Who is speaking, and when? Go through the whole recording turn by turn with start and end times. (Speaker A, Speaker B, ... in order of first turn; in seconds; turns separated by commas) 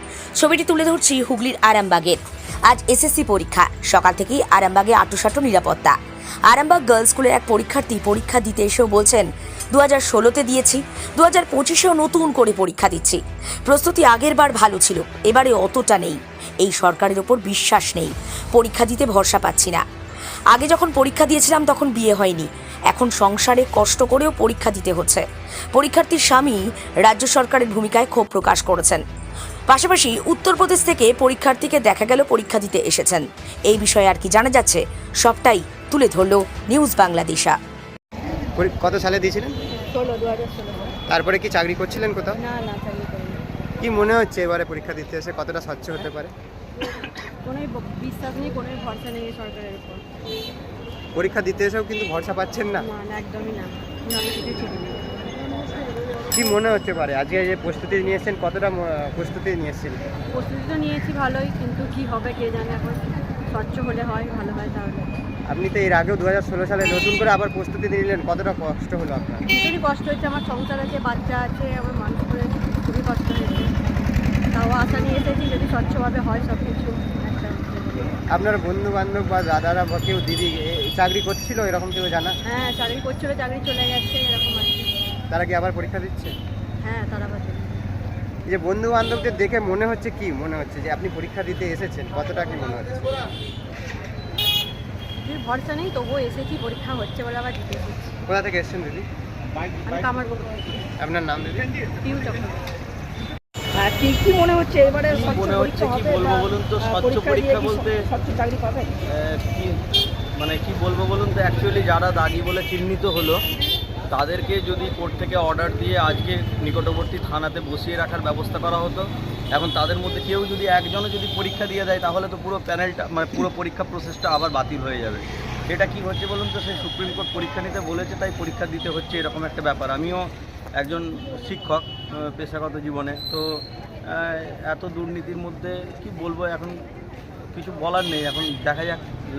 Speaker A: 0.4-6.0, Speaker A: 6.5-19.8, Speaker A: 20.5-29.0, Speaker A: 29.7-37.5, Speaker B: 38.6-39.5, Speaker C: 39.8-41.0, Speaker B: 41.1-42.4, Speaker C: 42.4-43.4, Speaker B: 43.8-46.3, Speaker C: 47.4-50.0, Speaker B: 51.1-52.8, Speaker C: 52.8-55.6, Speaker B: 56.3-60.0, Speaker C: 60.3-65.1, Speaker B: 65.5-69.4, Speaker C: 69.5-73.7, Speaker C: 74.5-78.2, Speaker B: 78.3-82.3, Speaker C: 82.4-84.9, Speaker B: 85.3-86.3, Speaker C: 86.8-87.8, Speaker B: 88.5-93.1, Speaker C: 95.2-98.1, Speaker B: 98.3-99.0, Speaker C: 99.8-100.7, Speaker B: 101.0-101.7, Speaker C: 102.0-102.6, Speaker D: 103.8-108.9, Speaker E: 105.1-108.0, Speaker E: 109.1-109.8, Speaker E: 110.4-113.4, Speaker E: 114.1-136.8, Speaker E: 137.5-139.1